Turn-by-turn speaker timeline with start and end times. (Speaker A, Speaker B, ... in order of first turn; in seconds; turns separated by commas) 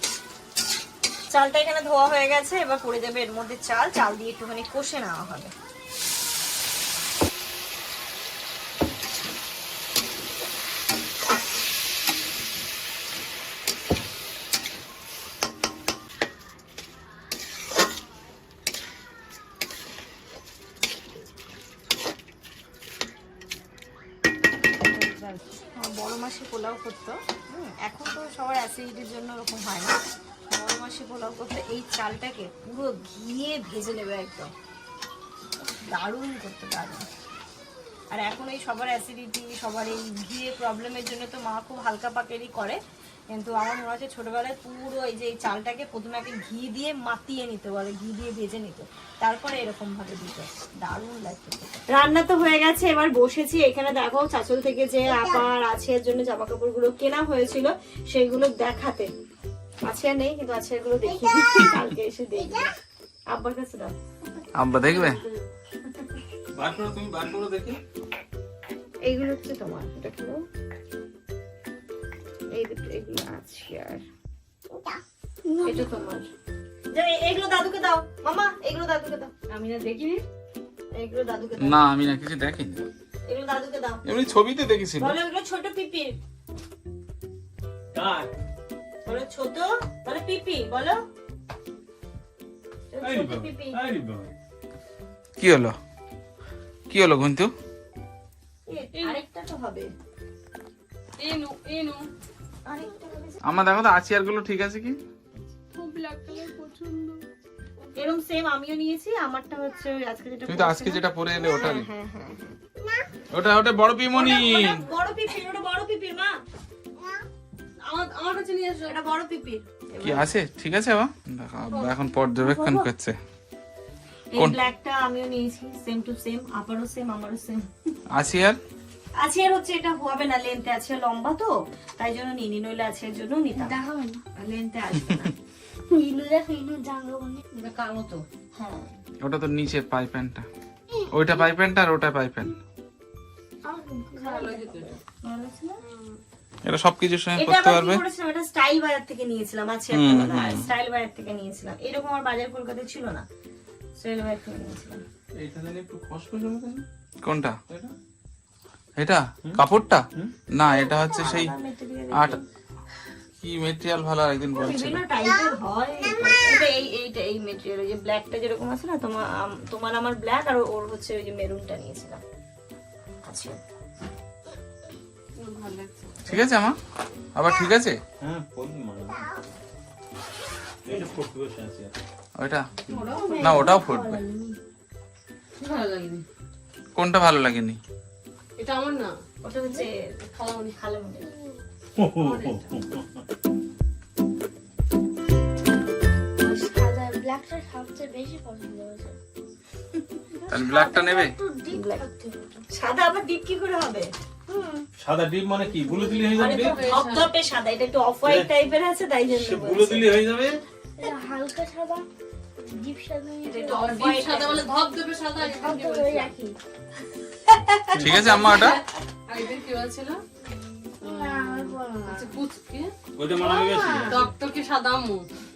Speaker A: 1.3-5.5, Speaker B: 24.9-25.4, Speaker A: 25.8-30.0, Speaker A: 30.5-34.5, Speaker A: 35.6-37.1, Speaker A: 38.1-42.8, Speaker A: 43.3-59.1, Speaker A: 59.9-62.7, Speaker A: 63.3-63.9, Speaker C: 64.6-65.2, Speaker B: 64.8-65.5, Speaker C: 66.5-67.8, Speaker A: 69.0-70.4, Speaker A: 72.5-74.0, Speaker A: 75.6-76.3, Speaker A: 76.9-80.2, Speaker A: 81.0-81.8, Speaker C: 81.6-82.9, Speaker A: 83.3-84.0, Speaker C: 84.0-85.2, Speaker A: 85.0-86.2, Speaker D: 87.9-88.3, Speaker A: 89.1-91.0, Speaker A: 92.9-93.9, Speaker D: 93.0-94.3, Speaker C: 95.4-95.8, Speaker C: 96.9-97.5, Speaker A: 98.7-99.9, Speaker B: 99.0-99.2, Speaker B: 101.2-102.1, Speaker A: 102.7-103.4, Speaker C: 103.5-105.0, Speaker B: 105.7-107.2, Speaker A: 108.0-112.6, Speaker C: 110.5-111.9, Speaker C: 113.3-114.9, Speaker A: 114.1-116.3, Speaker B: 117.8-119.0, Speaker A: 118.9-120.3, Speaker C: 120.0-123.2, Speaker B: 121.7-122.0, Speaker A: 122.4-122.9, Speaker A: 124.3-127.7, Speaker C: 128.1-128.6, Speaker A: 129.2-133.8, Speaker E: 133.6-134.2, Speaker A: 134.3-135.3, Speaker E: 135.9-137.4, Speaker B: 137.5-138.2, Speaker A: 138.6-138.9, Speaker C: 139.2-140.5, Speaker C: 141.1-142.5, Speaker E: 143.7-144.4, Speaker B: 144.1-144.9, Speaker A: 144.2-144.5, Speaker A: 145.1-145.8, Speaker B: 145.8-146.2, Speaker C: 146.7-148.0, Speaker A: 147.4-153.2, Speaker C: 149.9-150.7, Speaker A: 154.0-155.0, Speaker D: 155.4-156.8, Speaker C: 157.2-157.9, Speaker C: 159.0-161.5, Speaker A: 160.6-162.4, Speaker C: 162.1-162.4, Speaker C: 163.4-165.0, Speaker A: 164.6-172.2, Speaker A: 173.2-173.6, Speaker B: 175.4-176.2, Speaker C: 176.3-176.8, Speaker C: 177.3-178.0, Speaker D: 178.2-179.3, Speaker D: 180.9-181.9, Speaker C: 182.4-182.7, Speaker B: 182.9-183.7, Speaker E: 183.1-184.6, Speaker C: 183.3-184.2, Speaker B: 185.6-186.2, Speaker C: 186.9-187.8, Speaker B: 188.6-189.1, Speaker A: 189.4-190.0, Speaker B: 190.4-190.8, Speaker A: 190.8-191.3, Speaker D: 192.0-193.1, Speaker B: 192.2-192.7, Speaker E: 196.4-199.2, Speaker E: 200.4-202.6, Speaker C: 200.5-201.4, Speaker A: 201.7-202.0, Speaker A: 202.7-204.1, Speaker E: 204.5-204.8, Speaker D: 205.0-206.8, Speaker E: 205.8-206.2, Speaker B: 206.2-207.3, Speaker A: 206.3-210.2, Speaker D: 208.2-208.5, Speaker D: 209.3-210.6, Speaker E: 211.0-212.1, Speaker E: 212.6-214.0, Speaker A: 213.4-214.7, Speaker B: 213.6-216.4, Speaker E: 215.6-216.6, Speaker A: 217.5-217.9, Speaker D: 217.9-218.3, Speaker C: 218.0-218.8, Speaker B: 218.3-220.2, Speaker E: 221.0-222.3, Speaker B: 221.0-222.9, Speaker D: 223.2-224.3, Speaker E: 223.3-224.1, Speaker B: 224.1-225.3